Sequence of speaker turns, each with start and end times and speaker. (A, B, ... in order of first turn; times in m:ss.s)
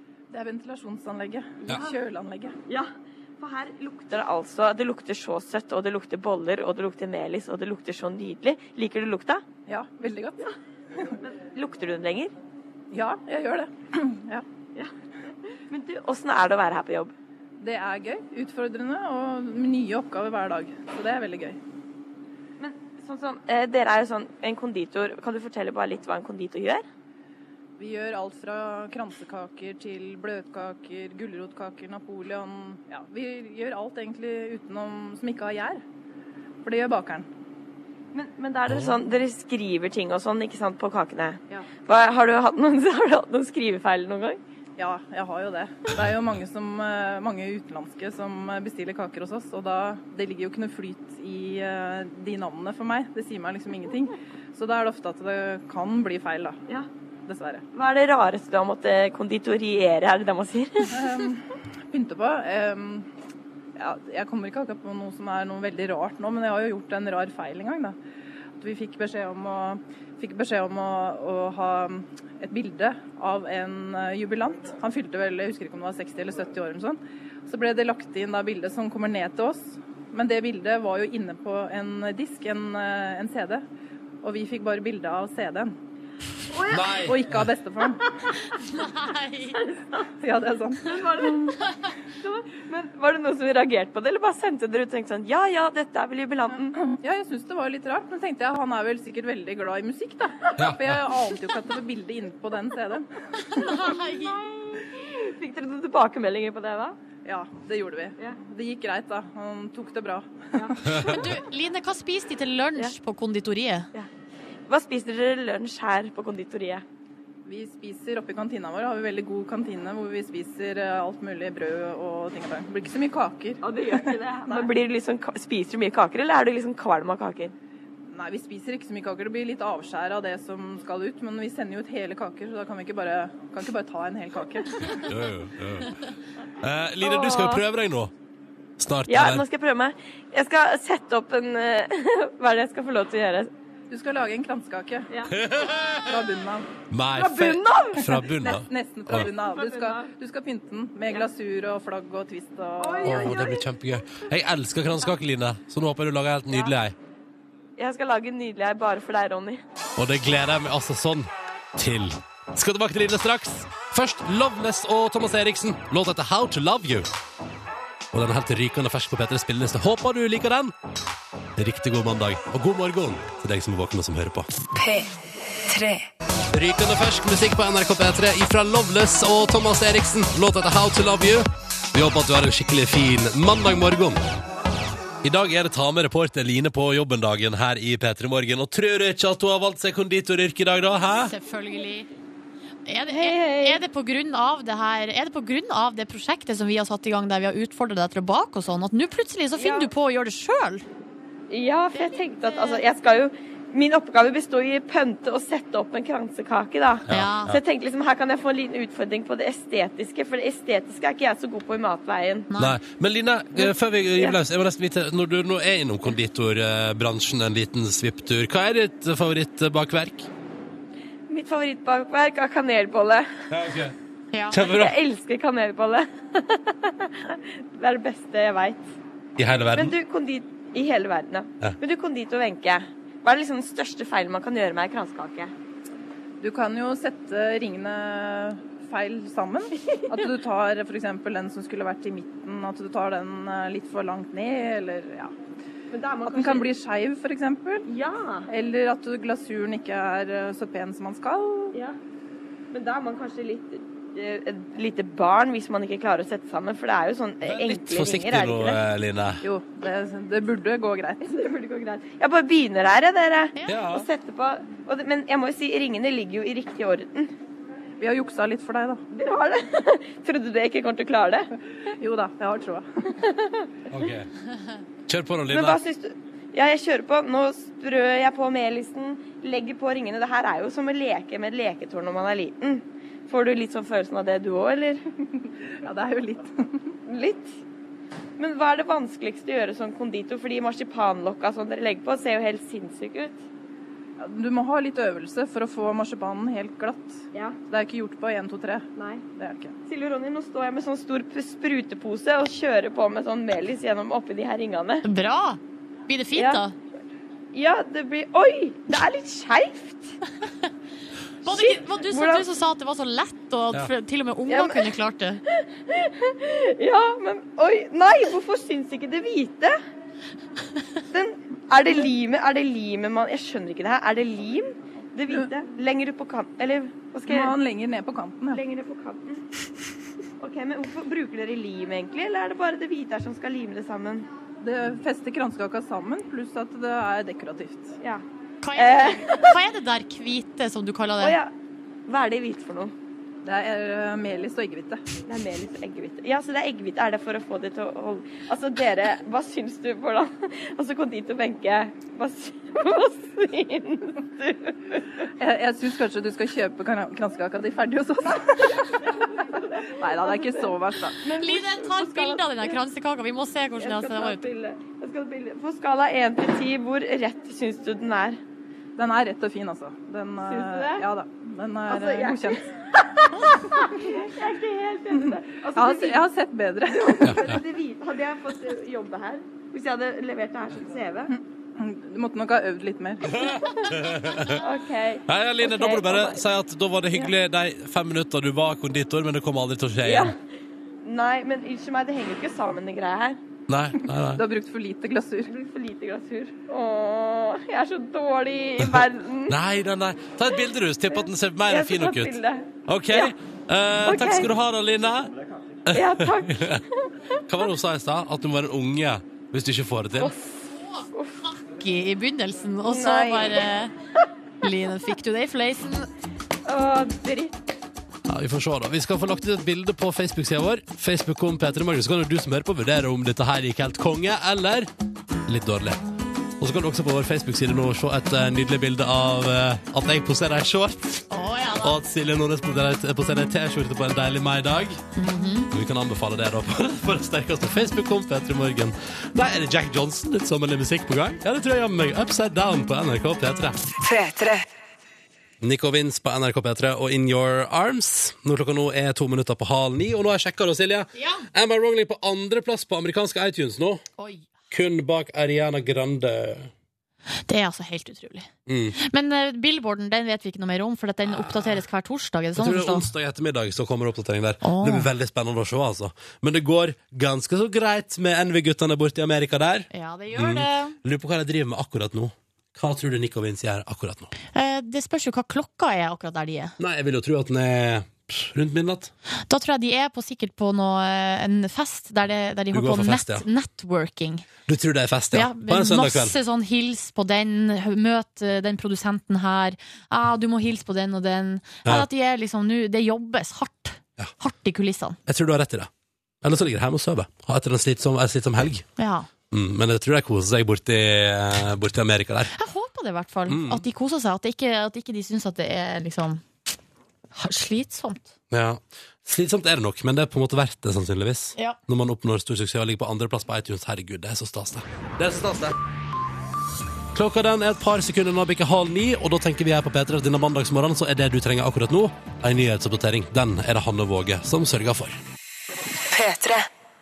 0:00.3-0:02.6 A
0:01.7-0:02.0 B
0:02.7-0:09.4 B
0:09.7-0:10.4 A
0:11.2-0:12.3 B
0:12.9-0:14.4 A
0:15.5-0:17.1 B
0:17.6-0:21.6 A
0:22.6-0:26.8 B
0:27.8-0:35.8 A
0:36.6-0:37.3 A
0:38.1-0:44.4 B
0:38.7-0:38.9 C
0:44.8-0:56.6 A
0:57.3-0:57.6 A
0:57.7-1:00.9 B
1:00.9-1:03.1 A
1:03.8-1:08.0 A
1:08.6-1:23.6 A
1:24.2-1:25.7 A
1:26.5-1:27.1 B
1:26.7-1:27.5 C
1:27.0-1:28.0 A
1:28.5-1:29.6 D
1:29.6-1:30.0 B
1:30.2-1:31.0 A
1:30.8-1:31.6 B
1:32.2-1:36.8 B
1:36.8-1:43.1 A
1:40.6-1:41.0 C
1:43.4-1:44.4 D
1:43.6-1:47.0 B
1:47.2-1:51.0 A
1:50.6-1:50.9 B
1:50.9-1:51.1 C
1:51.0-1:53.9 D
1:54.7-1:56.8 B
1:57.4-2:04.6 A
2:03.6-2:07.5 B
2:08.1-2:15.0 A
2:14.9-2:16.0 C
2:16.6-2:18.1 C
2:17.0-2:17.6 B
2:18.8-2:19.4 C
2:19.1-2:23.5 B
2:23.9-2:25.1 A
2:25.1-2:25.4 B
2:25.3-2:26.1 C
2:26.1-2:26.7 A
2:26.9-2:29.2 C
2:27.1-2:28.2 B
2:28.2-2:33.2 A
2:29.1-2:30.1 B
2:32.8-2:33.7 B
2:33.0-2:37.0 C
2:37.8-2:39.6 B
2:40.0-2:47.1 C
2:48.1-2:50.7 C
2:51.6-2:54.5 C
2:54.7-2:55.1 E
2:55.7-2:56.1 E
2:56.5-3:04.2 C
3:05.2-3:11.3 C
3:11.2-3:12.1 D
3:12.8-3:20.8 D
3:13.1-3:13.8 B
3:19.6-3:19.9 B
3:21.5-3:32.5 B
3:21.9-3:22.8 D
3:27.1-3:27.6 C
3:27.1-3:27.5 D
3:32.5-3:32.8 D
3:32.6-3:40.3 C
3:41.3-3:43.3 B
3:43.5-3:43.9 C
3:44.3-3:44.6 D
3:44.5-3:45.0 C
3:44.5-3:48.8 B
3:49.4-3:50.0 C
3:49.7-3:55.5 B
3:56.4-4:05.3 A
3:59.9-4:00.1 B
4:05.9-4:06.7 B
4:06.3-4:07.8 A
4:07.9-4:08.5 B
4:08.5-4:11.7 A
4:12.7-4:18.8 B
4:17.4-4:19.4 C
4:19.4-4:21.3 A
4:21.2-4:27.3 B
4:23.7-4:24.0 C
4:28.0-4:29.0 A
4:29.1-4:31.5 B
4:32.0-4:32.9 A
4:33.2-4:33.7 B
4:33.9-4:34.3 C
4:35.1-4:35.8 C
4:35.5-4:45.0 B
4:45.8-4:46.9 A
4:47.0-4:47.6 B
4:48.4-4:53.4 B
4:54.2-4:59.7 A
4:57.3-4:57.6 B
4:59.0-4:59.3 B
4:59.9-5:05.0 B
5:05.0-5:06.7 D
5:06.3-5:06.6 B
5:07.5-5:10.2 B
5:11.4-5:15.4 D
5:11.5-5:12.4 B
5:14.5-5:14.9 B
5:15.5-5:19.8 B
5:21.1-5:27.6 B
5:27.3-5:28.6 A
5:28.5-5:29.4 B
5:30.4-5:34.3 B
5:34.6-5:38.0 A
5:38.6-5:41.4 D
5:38.7-5:39.6 B
5:41.2-5:41.5 B
5:42.1-5:42.9 B
5:43.4-5:45.0 A
5:45.3-5:55.0 B
5:55.4-5:58.9 A
5:59.6-6:02.8 B
6:00.0-6:01.2 A
6:01.3-6:04.4 D
6:03.8-6:08.4 B
6:09.0-6:12.6 A
6:10.4-6:11.0 B
6:11.9-6:16.3 B
6:15.2-6:17.3 A
6:17.0-6:21.3 B
6:17.2-6:17.6 C
6:21.3-6:23.4 A
6:23.3-6:24.6 C
6:23.4-6:26.4 B
6:25.3-6:30.3 C
6:30.0-6:30.3 B
6:31.0-6:33.4 B
6:33.7-6:34.4 C
6:34.3-6:35.5 A
6:35.5-6:39.6 B
6:38.8-6:42.3 C
6:41.7-6:43.3 B
6:42.9-6:45.3 C
6:44.0-6:44.5 B
6:45.9-6:46.8 C
6:45.9-6:47.4 B
6:47.5-6:50.3 C
6:50.2-6:51.5 B
6:51.6-6:53.9 D
6:52.8-6:53.7 B
6:54.6-6:56.1 D
6:56.6-6:57.6 B
6:58.3-7:04.9 C
7:05.5-7:06.0 C
7:06.6-7:11.3 C
7:11.3-7:12.0 D
7:11.8-7:15.0 C
7:15.2-7:15.7 D
7:15.7-7:23.8 C
7:23.9-7:24.6 E
7:25.6-7:34.0 C
7:31.1-7:31.4 D
7:34.2-7:34.5 D
7:34.7-7:36.7 C
7:37.5-7:43.1 D
7:38.7-7:39.0 C
7:41.3-7:41.8 C
7:42.6-7:54.3 C
7:44.6-7:45.1 D
7:49.9-7:51.0 D
7:54.5-7:56.8 D
7:56.8-7:59.1 C
7:59.5-8:04.5 D
8:02.7-8:03.4 C
8:04.6-8:06.4 C
8:05.3-8:15.2 D
8:15.2-8:15.9 C
8:16.4-8:18.8 C
8:19.0-8:19.3 D
8:19.5-8:22.5 C
8:22.5-8:26.4 D
8:23.5-8:23.8 C
8:27.3-8:28.3 D
8:28.5-8:35.8 C
8:37.1-8:45.2 C
8:46.1-8:46.7 E